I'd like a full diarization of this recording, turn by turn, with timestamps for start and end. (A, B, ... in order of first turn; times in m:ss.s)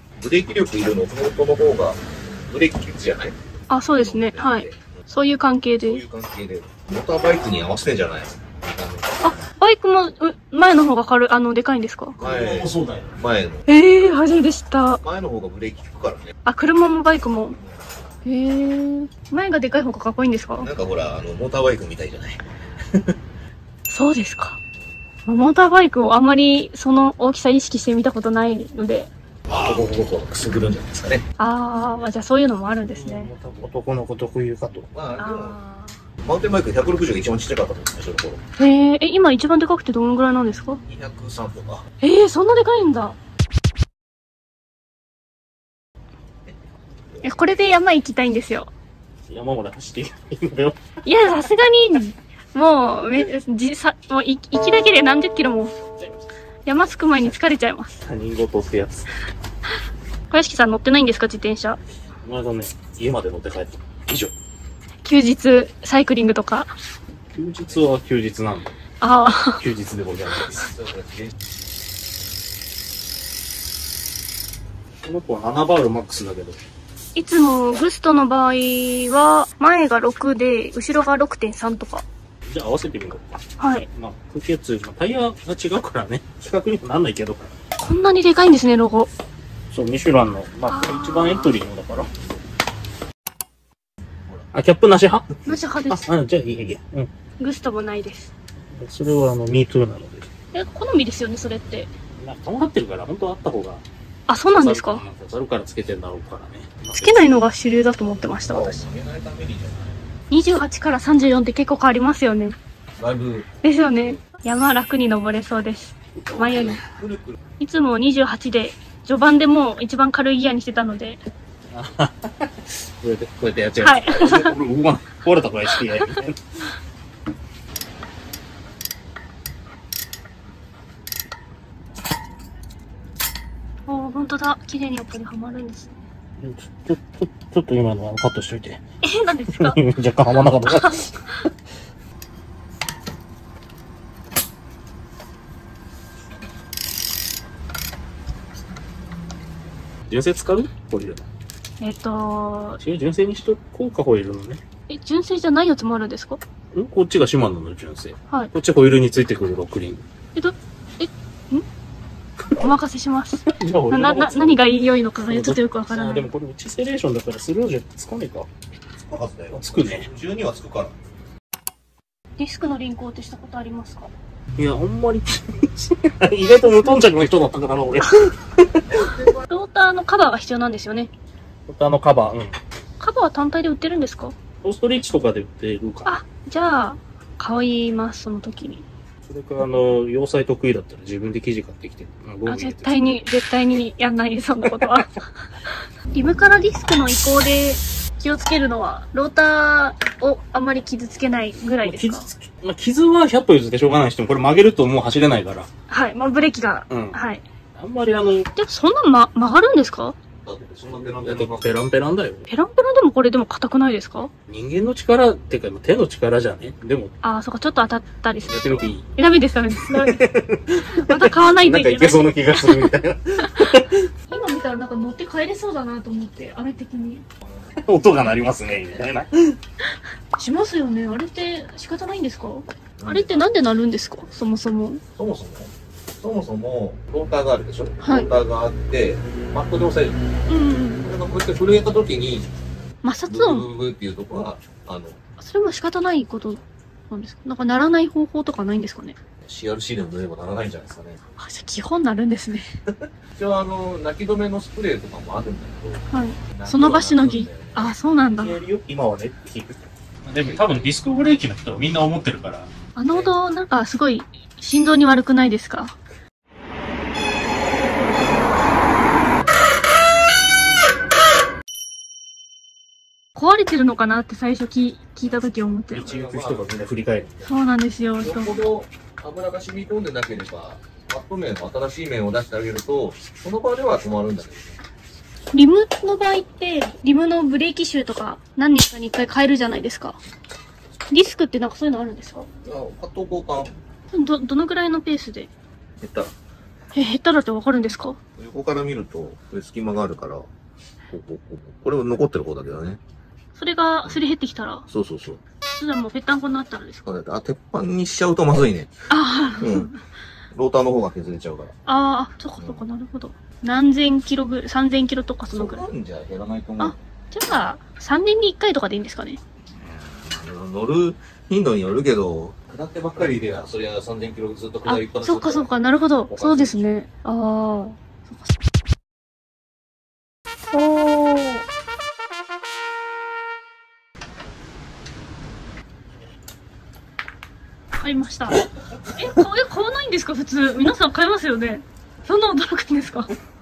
0:00.2-0:03.4 A
0:03.7-0:06.0 B
0:03.9-0:04.8 A
0:05.8-0:09.2 A
0:09.2-0:12.2 B
0:12.2-0:13.2 C
0:12.2-0:13.7 A
0:13.7-0:15.0 B
0:15.0-0:16.3 A
0:16.4-0:17.6 B
0:18.2-0:20.7 B
0:20.6-0:22.4 A
0:23.9-0:24.6 B
0:25.3-0:29.1 B
0:29.5-0:31.2 A
0:31.4-0:33.3 B
0:32.8-0:34.9 C
0:34.9-0:35.6 A
0:35.2-0:36.0 B
0:36.2-0:38.4 A
0:38.6-0:40.8 B
0:40.9-0:41.9 A
0:42.0-0:43.2 B
0:47.2-0:48.7 B
0:49.3-0:50.9 C
0:51.0-0:55.8 B
0:56.7-0:58.0 B
0:58.0-0:59.1 C
1:00.3-1:01.8 B
1:02.2-1:04.3 C
1:05.0-1:06.7 B
1:07.3-1:08.8 C
1:09.0-1:09.6 B
1:09.6-1:10.7 C
1:10.5-1:11.3 A
1:15.0-1:16.6 C
1:17.2-1:22.0 B
1:22.5-1:27.5 C
1:23.6-1:23.9 B
1:27.8-1:29.1 B
1:29.7-1:32.1 C
1:30.7-1:31.6 B
1:34.5-1:37.1 C
1:35.4-1:36.0 B
1:37.4-1:38.3 B
1:38.7-1:40.3 C
1:40.5-1:41.9 B
1:42.2-1:43.8 C
1:44.3-1:45.0 B
1:44.5-1:47.4 C
1:47.0-1:48.8 B
1:48.5-1:50.0 A
1:50.3-1:52.6 B
1:53.0-1:53.5 A
1:53.6-1:56.8 B
1:56.4-1:57.4 A
1:57.6-2:01.2 B
2:01.7-2:06.7 C
2:03.8-2:04.6 B
2:05.7-2:06.1 B
2:13.9-2:16.0 B
2:16.4-2:18.8 C
2:19.0-2:19.8 B
2:19.5-2:21.1 C
2:20.6-2:21.3 B
2:30.1-2:31.3 C
2:31.8-2:32.8 B
2:32.8-2:34.6 C
2:34.9-2:36.4 B
2:36.7-2:40.0 C
2:40.4-2:41.6 B
2:42.6-2:46.3 B
2:43.4-2:44.6 C
2:45.3-2:48.5 C
2:49.0-2:51.0 A
2:49.5-2:50.1 C
2:52.4-2:54.1 B
2:54.6-2:58.8 C
2:58.9-2:59.4 A
2:59.5-3:01.1 B
3:01.7-3:02.6 C
3:03.0-3:04.4 B
3:04.6-3:06.1 C
3:06.0-3:08.8 B
3:09.2-3:12.9 C
3:12.5-3:15.2 B
3:14.6-3:15.0 C
3:16.1-3:22.3 B
3:21.8-3:25.7 C
3:25.9-3:27.4 B
3:26.9-3:27.2 C
3:27.8-3:28.5 C
3:28.6-3:30.2 B
3:30.4-3:31.8 A
3:31.2-3:32.4 C
3:32.5-3:34.3 B
3:34.5-3:37.1 C
3:37.2-3:40.2 B
3:38.4-3:39.1 C
3:39.8-3:44.1 C
3:41.0-3:42.9 B
3:44.3-3:47.2 B
3:47.8-3:49.6 C
3:50.4-3:55.0 B
3:53.0-3:53.5 A
3:55.2-4:00.2 A
3:58.0-3:58.3 B
4:00.5-4:01.0 B
4:01.0-4:02.5 A
4:03.0-4:03.7 B
4:03.3-4:05.2 A
4:05.4-4:09.2 B
4:09.4-4:11.2 A
4:11.4-4:12.7 B
4:12.9-4:17.9 A
4:16.1-4:18.6 B
4:18.3-4:22.7 C
4:23.0-4:26.0 B
4:23.1-4:23.4 A
4:33.4-4:36.1 B
4:35.9-4:37.6 C
4:36.1-4:36.8 A
4:37.5-4:38.6 B
4:38.2-4:44.8 A
4:45.5-4:50.2 B
4:51.1-4:52.5 B
4:52.6-4:53.7 A
4:54.1-4:55.5 B
4:56.0-4:56.3 A
4:56.9-4:58.2 B
4:58.4-5:00.5 A
5:01.1-5:03.0 A
5:03.6-5:04.8 B
5:04.9-5:05.4 A
5:05.6-5:07.0 B
5:07.0-5:08.9 A
5:09.1-5:10.0 B
5:09.6-5:09.9 A
5:10.5-5:11.7 A
5:11.9-5:15.9 B
5:12.6-5:12.8 A
5:15.5-5:17.0 A
5:16.8-5:19.4 B
5:19.8-5:25.7 A
5:24.8-5:28.5 B
5:26.3-5:26.8 A
5:30.7-5:31.6 B
5:38.0-5:43.3 B